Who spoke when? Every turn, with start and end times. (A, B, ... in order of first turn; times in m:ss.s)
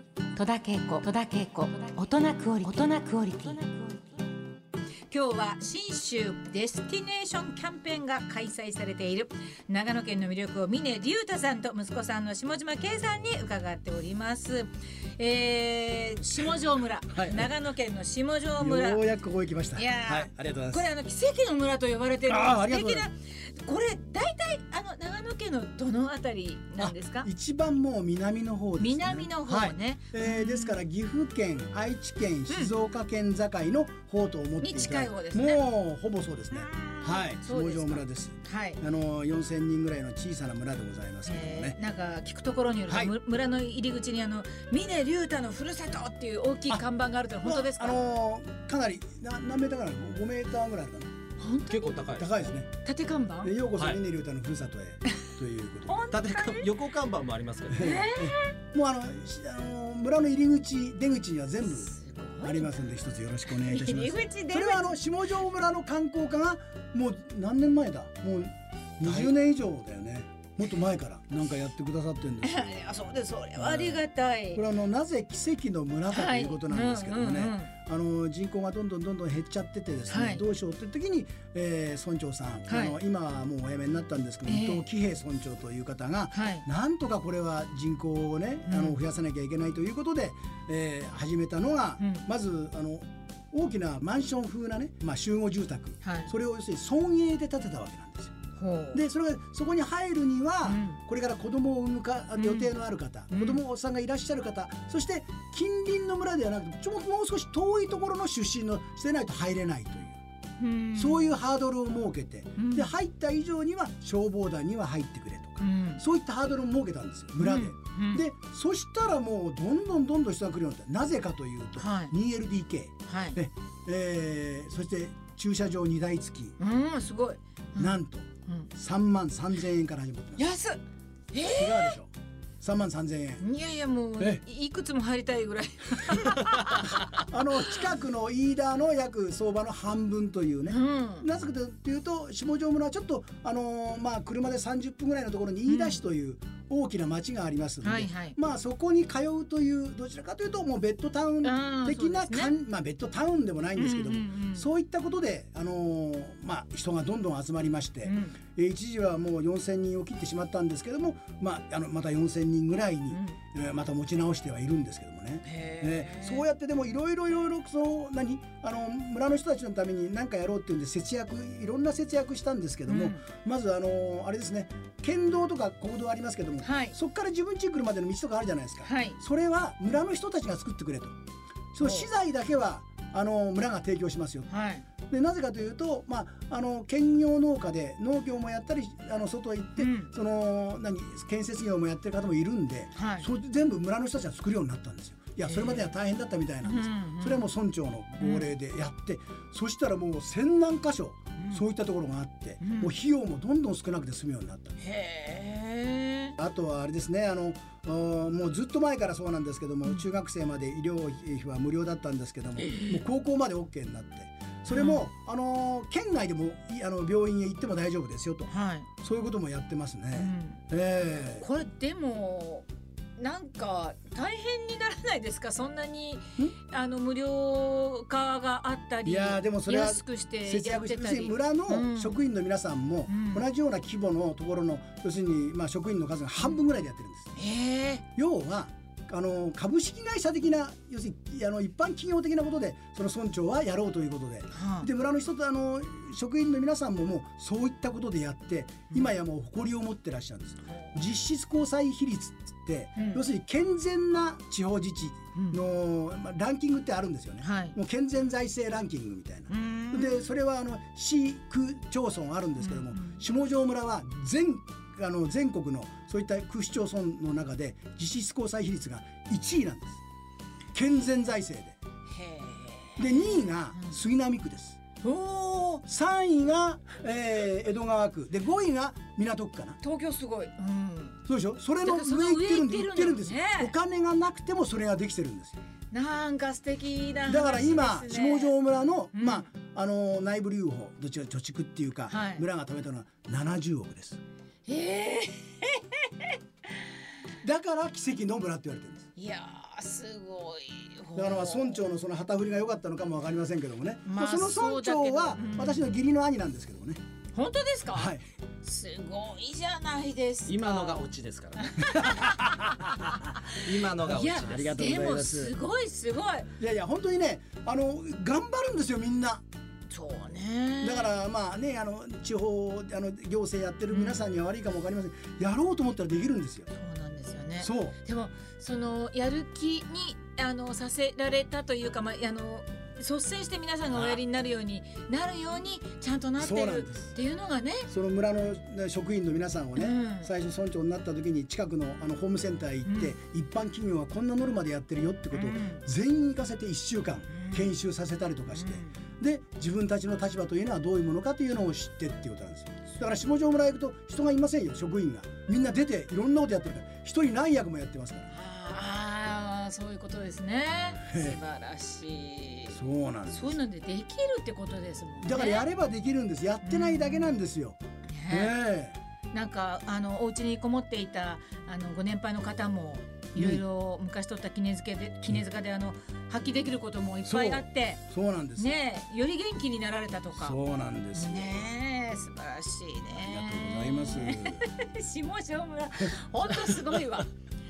0:00.4-0:04.0 A
0:05.1-0:19.0 B
0:17.1-0:17.5 C
0:18.6-0:20.9 C
0:19.8-0:27.3 B
0:22.3-0:23.1 C
0:26.8-0:41.8 C
0:28.8-0:30.8 B
0:34.6-0:35.6 B
0:36.5-0:38.8 B
0:41.2-0:48.0 B
0:42.9-0:43.2 C
0:47.4-0:51.1 C
0:51.4-0:52.1 B
0:51.7-0:52.3 D
0:52.1-0:52.7 C
0:52.8-0:53.6 B
0:53.4-0:56.0 C
0:55.9-0:56.7 B
0:56.1-0:58.0 D
0:57.7-1:12.8 C
0:57.8-0:58.5 B
1:01.7-1:02.9 B
1:03.5-1:05.0 B
1:12.4-1:14.6 B
1:13.6-1:38.3 C
1:16.1-1:17.7 B
1:20.1-1:20.4 B
1:22.7-1:23.0 B
1:24.5-1:24.8 B
1:26.3-1:26.6 B
1:28.7-1:29.0 B
1:32.0-1:32.3 B
1:36.0-1:36.3 B
1:38.6-1:39.0 B
1:38.9-1:50.2 C
1:40.6-1:41.0 B
1:42.4-1:42.7 B
1:43.3-1:43.6 B
1:50.6-1:51.4 B
1:51.0-2:06.6 C
1:52.6-1:52.9 B
1:55.6-1:56.0 B
1:57.4-1:58.2 B
2:01.8-2:02.1 B
2:03.1-2:03.4 B
2:06.6-2:08.7 B
2:07.8-2:10.5 C
2:10.4-2:10.8 B
2:11.3-2:12.0 B
2:11.5-2:13.4 C
2:13.4-2:17.2 B
2:14.2-2:14.4 C
2:16.8-3:01.2 C
2:20.7-2:21.3 B
2:25.7-2:26.0 B
2:27.8-2:28.4 B
2:31.4-2:32.5 B
2:33.8-2:34.7 B
2:38.0-2:38.4 B
2:43.1-2:43.4 B
2:45.4-2:46.5 B
2:52.9-2:53.2 B
2:56.6-2:57.0 B
2:58.8-2:59.2 B
3:01.7-3:04.5 C
3:01.8-3:02.1 B
3:04.5-3:04.8 B
3:05.0-3:24.8 C
3:09.8-3:10.1 B
3:13.0-3:13.3 B
3:15.4-3:15.9 B
3:16.6-3:17.4 B
3:18.2-3:18.5 B
3:21.4-3:21.6 B
3:22.6-3:22.9 B
3:24.8-3:26.4 B
3:26.4-3:41.5 C
3:32.6-3:33.0 B
3:34.7-3:35.0 B
3:38.5-3:38.9 B
3:40.2-3:40.6 B
3:41.4-3:52.2 B
3:49.0-3:57.4 C
3:53.1-3:53.5 B
3:57.4-3:58.0 B
3:58.2-4:30.0 C
4:04.5-4:04.9 B
4:10.7-4:10.9 B
4:13.0-4:13.2 B
4:15.4-4:15.6 B
4:17.4-4:17.8 B
4:19.5-4:20.2 B
4:22.6-4:23.2 B
4:30.7-4:31.8 C
4:32.1-4:34.0 B
4:33.0-4:34.8 C
4:35.0-4:35.8 B
4:35.9-4:39.8 C
4:39.8-4:41.2 B
4:41.3-4:45.6 C
4:41.8-4:43.7 B
4:45.9-4:48.5 B
4:47.3-4:54.2 C
4:49.1-4:49.5 B
4:52.1-4:52.4 B
4:54.7-4:56.4 B
4:57.4-4:59.1 C
4:59.2-5:01.8 B
5:01.2-5:07.0 C
5:04.0-5:05.9 B
5:07.3-5:11.1 B
5:07.9-5:08.2 C
5:10.5-5:15.2 D
5:11.6-5:16.5 B
5:14.4-5:15.5 C
5:16.6-5:19.4 C
5:19.9-5:21.1 B
5:20.8-5:26.7 C
5:23.9-5:24.2 B
5:26.7-5:37.9 B
5:27.6-5:28.0 C
5:33.9-5:34.2 C
5:36.4-5:37.1 C
5:37.9-5:58.3 C
5:39.8-5:40.3 B
5:42.8-5:43.1 B
5:45.3-5:45.8 B
5:47.3-5:47.7 B
5:48.5-5:49.0 B
5:58.3-6:02.8 B
6:01.1-6:01.4 C
6:02.7-6:03.6 C
6:03.3-6:05.7 B
6:05.2-6:09.0 C
6:06.6-6:07.4 B
6:08.1-6:08.6 B
6:09.3-6:18.0 B
6:13.4-6:13.6 C
6:17.2-6:18.8 C
6:18.6-6:20.6 B
6:20.4-6:21.7 C
6:21.1-6:27.3 B
6:23.2-6:24.6 C
6:26.5-6:27.0 C